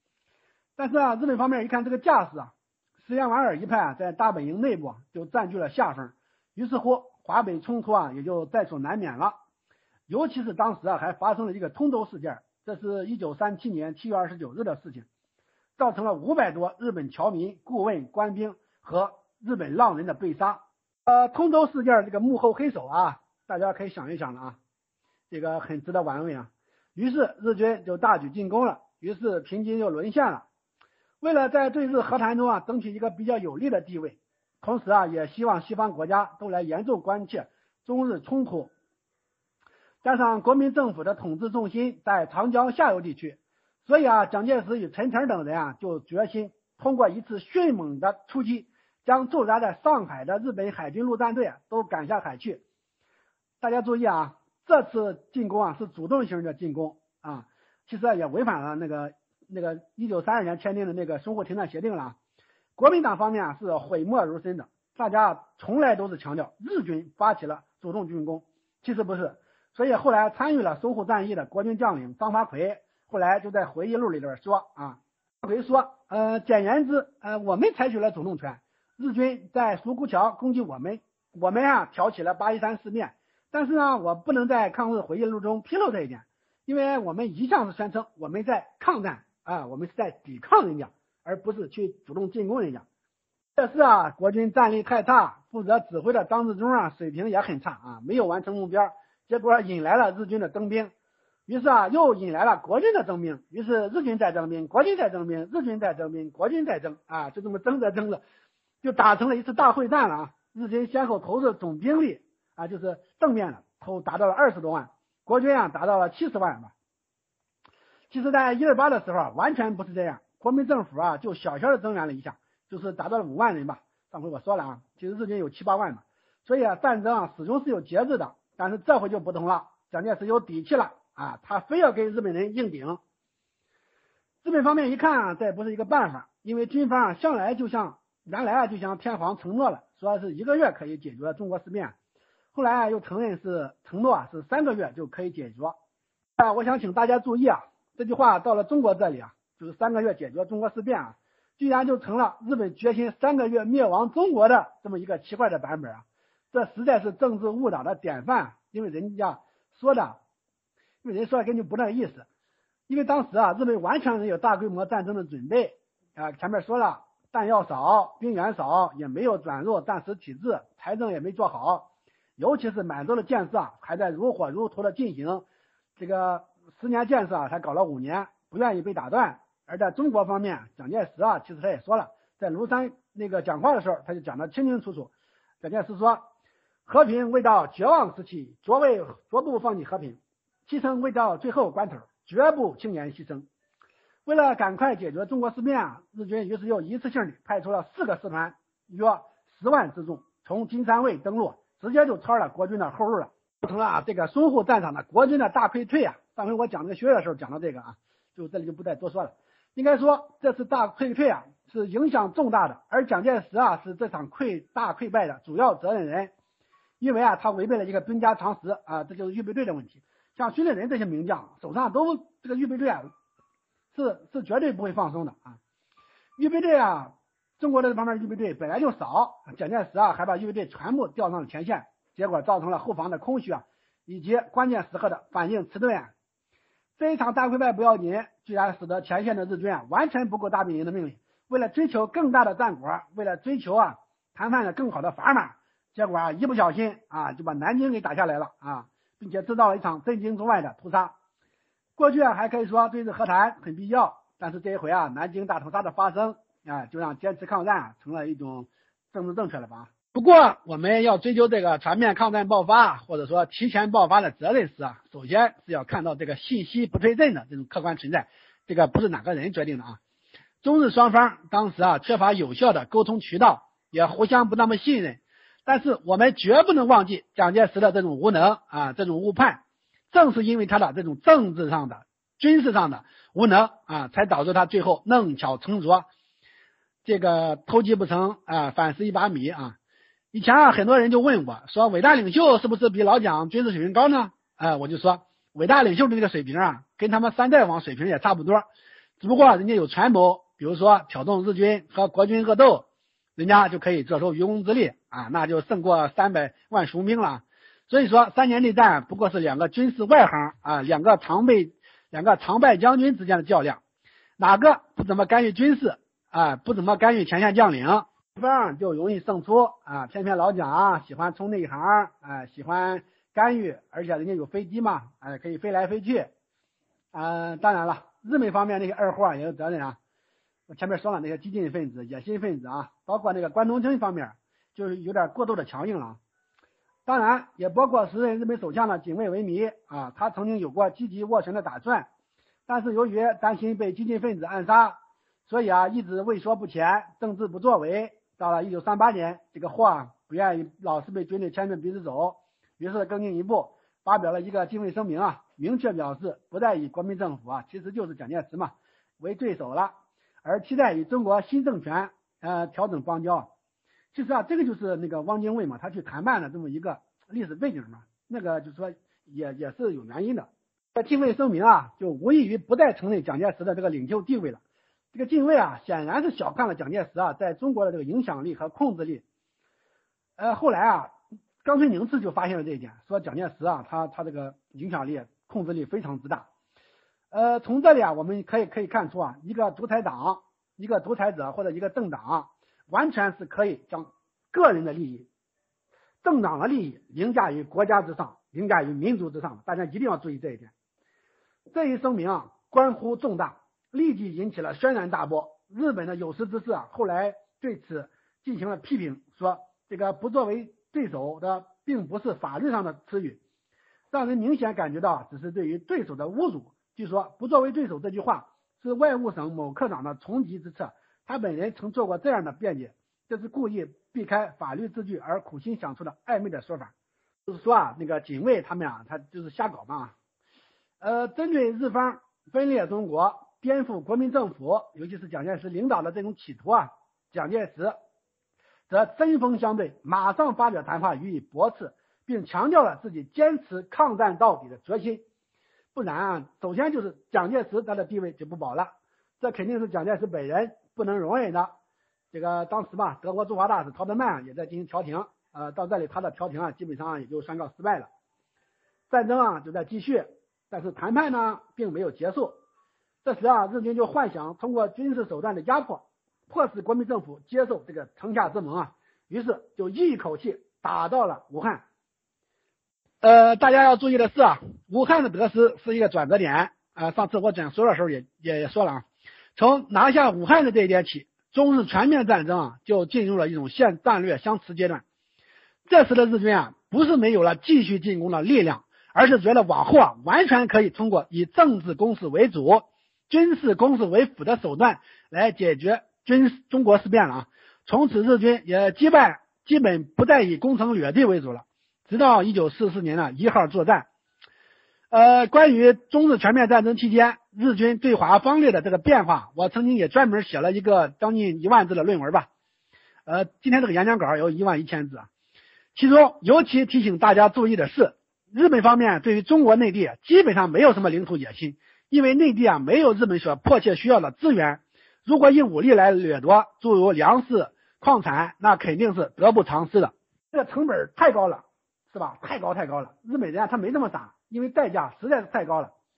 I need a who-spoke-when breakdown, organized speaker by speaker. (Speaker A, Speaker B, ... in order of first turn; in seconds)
Speaker A: 0.8-9.3, 10.1-15.1, 15.8-24.6, 25.3-30.4, 31.2-38.7, 40.0-52.6, 53.6-62.2, 62.8-92.8, 93.5-100.9, 101.5-108.2, 108.8-116.7, 118.1-133.0, 134.4-141.9, 142.5-145.8, 146.4-160.2, 161.0-162.3, 162.9-175.4, 176.0-186.2, 186.8-193.5, 194.2-216.3, 217.0-223.1, 223.9-225.6, 226.4-236.1, 237.0-251.1, 252.0-270.0, 270.6-286.1, 287.0-289.8, 290.3-298.6, 299.2-302.8, 303.4-313.8, 314.4-326.3, 327.1-330.0, 330.7-336.2, 337.1-342.1, 342.7-363.5, 364.1-374.6, 375.1-379.2, 380.4-381.1, 381.6-386.5, 387.3-395.3, 396.2-400.7, 401.7-413.4, 414.1-426.9, 427.5-430.1, 431.0-437.9, 438.9-445.2, 445.9-451.7, 452.3-458.1, 459.1-462.6, 463.2-471.8, 473.2-479.0, 479.6-485.0, 485.9-504.1, 505.1-512.5, 513.2-515.3, 515.9-535.9